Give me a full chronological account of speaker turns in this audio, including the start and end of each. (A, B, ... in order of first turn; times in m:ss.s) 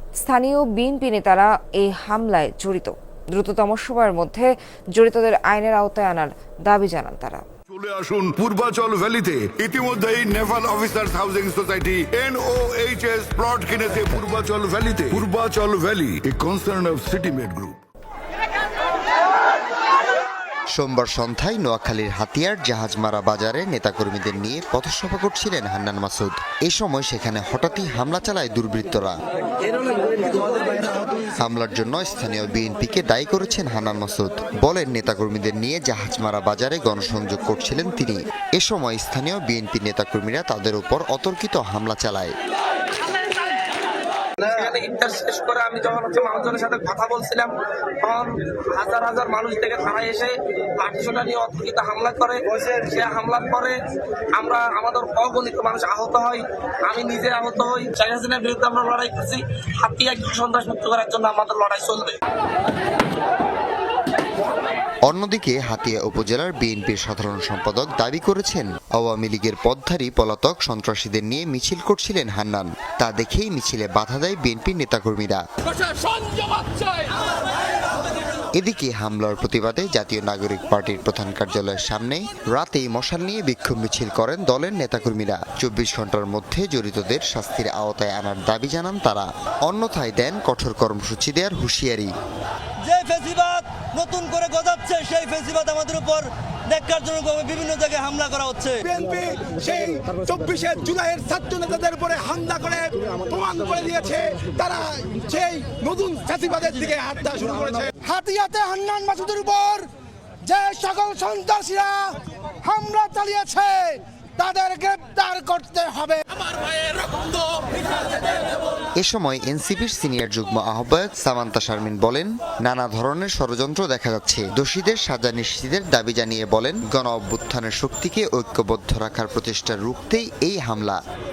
0:00.2-0:07.4 A
0:07.7-0:17.8 B
0:20.8-0:29.2 C
0:31.4-0:42.3 C
0:44.4-0:53.8 D
0:54.4-1:02.2 D
1:05.1-1:15.4 C
1:18.6-1:32.1 C
1:32.8-1:38.8 E
1:38.8-1:49.9 F
1:50.4-1:56.2 F
1:59.0-2:11.0 C